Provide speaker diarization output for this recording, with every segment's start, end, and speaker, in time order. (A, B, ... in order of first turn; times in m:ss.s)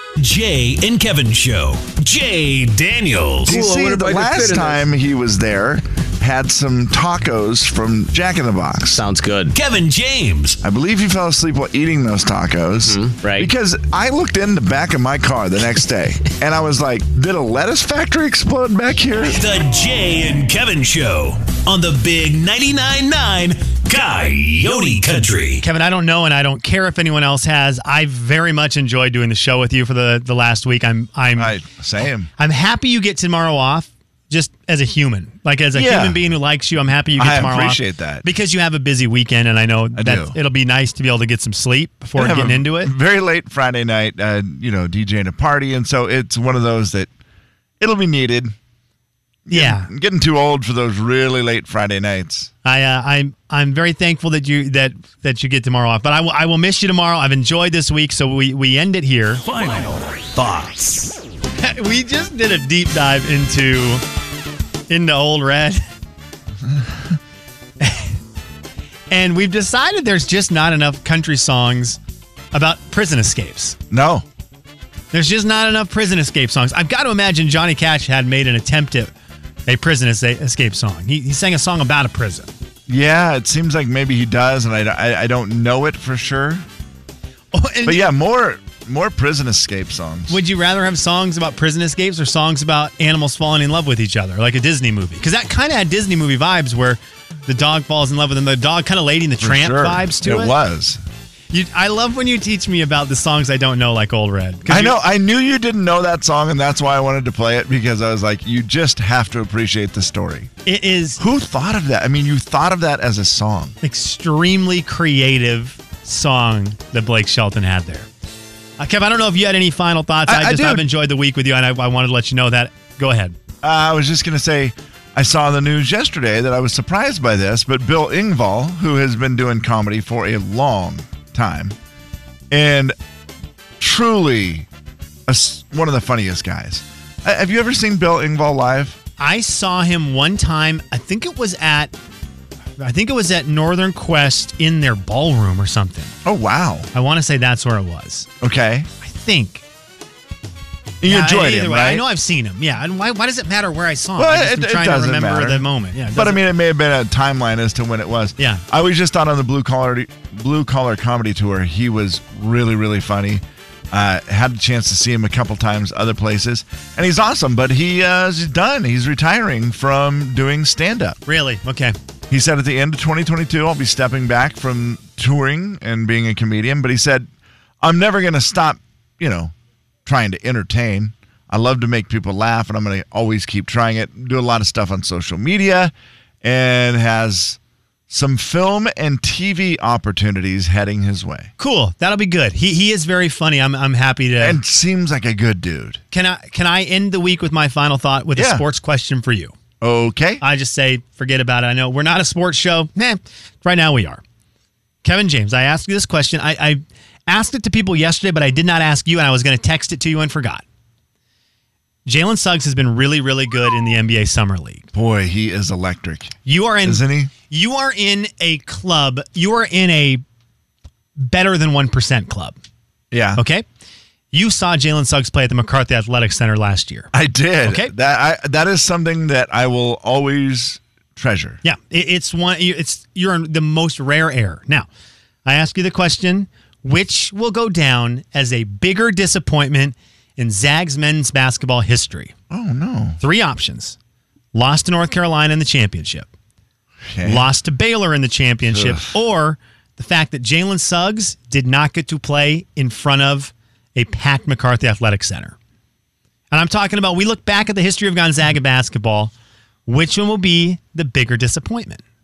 0:00.2-0:03.5 A
0:03.4-0:09.0 B
0:03.5-0:04.8 C
0:08.9-0:09.5 C
0:09.5-0:10.6 A
0:10.6-0:19.4 B
0:12.8-0:13.5 C
0:19.3-0:25.6 A
0:25.6-0:31.6 D
0:31.4-0:32.3 B
0:32.4-0:42.9 D
0:35.7-0:36.2 B
0:37.2-0:38.2 B
0:39.9-0:40.4 B
0:42.2-0:47.1 B
0:47.8-0:48.5 B
0:49.4-0:52.5 B
0:49.5-0:49.9 D
0:52.6-0:59.4 D
0:59.4-1:01.2 A
1:01.6-1:04.0 D
1:04.9-1:05.8 D
1:07.8-1:08.2 D
1:09.1-1:12.0 D
1:12.5-1:13.8 D
1:13.9-1:14.2 B
1:15.1-1:19.1 D
1:19.7-1:22.5 D
1:22.9-1:26.6 B
1:27.5-1:28.0 D
1:27.8-1:30.4 B
1:30.3-1:40.6 D
1:39.4-1:41.0 B
1:41.5-1:45.0 D
1:44.7-1:50.5 B
1:50.6-1:51.2 D
1:51.2-1:53.8 B
1:53.8-1:58.1 D
1:58.8-2:03.4 D
2:00.2-2:00.9 B
2:03.6-2:11.7 B
2:12.5-2:12.9 B
2:13.8-2:14.7 B
2:15.3-2:19.0 B
2:19.2-2:21.9 D
2:22.8-2:26.1 D
2:26.2-2:26.9 B
2:26.9-2:28.3 D
2:28.4-2:28.9 B
2:29.0-2:29.6 D
2:31.0-2:32.0 B
2:31.0-2:36.5 D
2:34.2-2:51.2 B
2:51.2-2:52.0 D
2:52.3-2:57.3 B
2:57.8-2:59.5 B
3:00.0-3:11.5 B
3:11.6-3:14.6 D
3:14.4-3:16.0 B
3:16.1-3:19.5 D
3:18.3-3:18.6 B
3:19.8-3:20.4 B
3:20.4-3:24.2 D
3:25.0-3:30.6 D
3:32.0-3:34.9 D
3:34.9-3:37.3 B
3:36.4-3:40.2 D
3:41.2-3:42.6 D
3:43.1-3:43.4 B
3:43.4-3:43.6 D
3:44.3-3:47.1 D
3:47.1-3:51.6 B
3:47.6-3:47.9 D
3:51.6-3:54.9 D
3:55.4-4:02.3 D
4:02.5-4:03.2 B
4:03.2-4:04.0 D
4:04.5-4:06.3 D
4:07.1-4:07.5 B
4:07.2-4:15.6 D
4:08.7-4:09.1 B
4:16.5-4:19.3 D
4:19.8-4:22.0 D